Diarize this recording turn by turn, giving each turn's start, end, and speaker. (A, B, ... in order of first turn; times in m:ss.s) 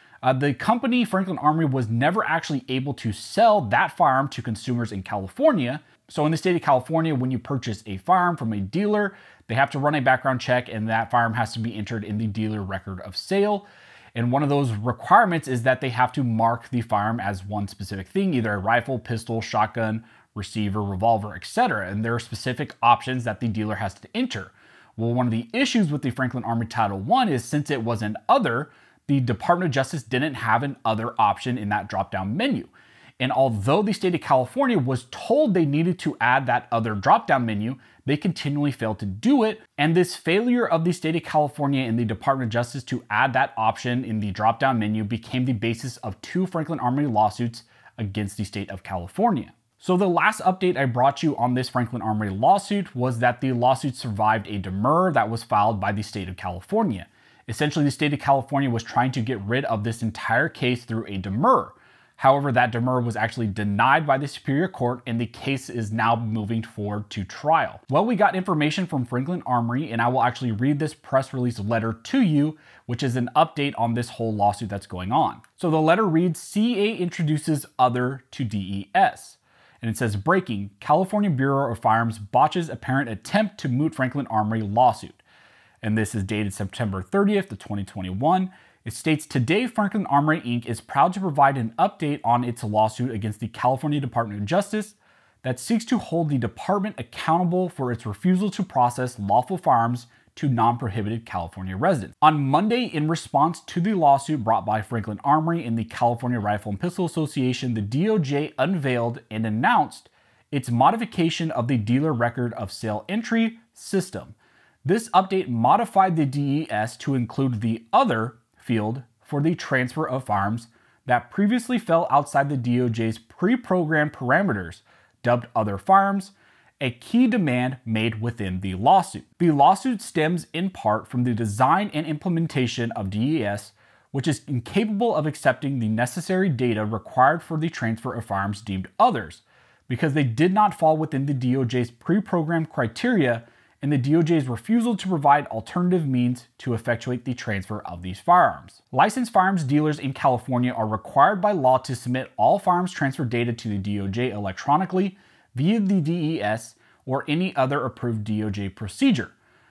0:00.2-1:25.2 A
1:25.8-2:39.3 A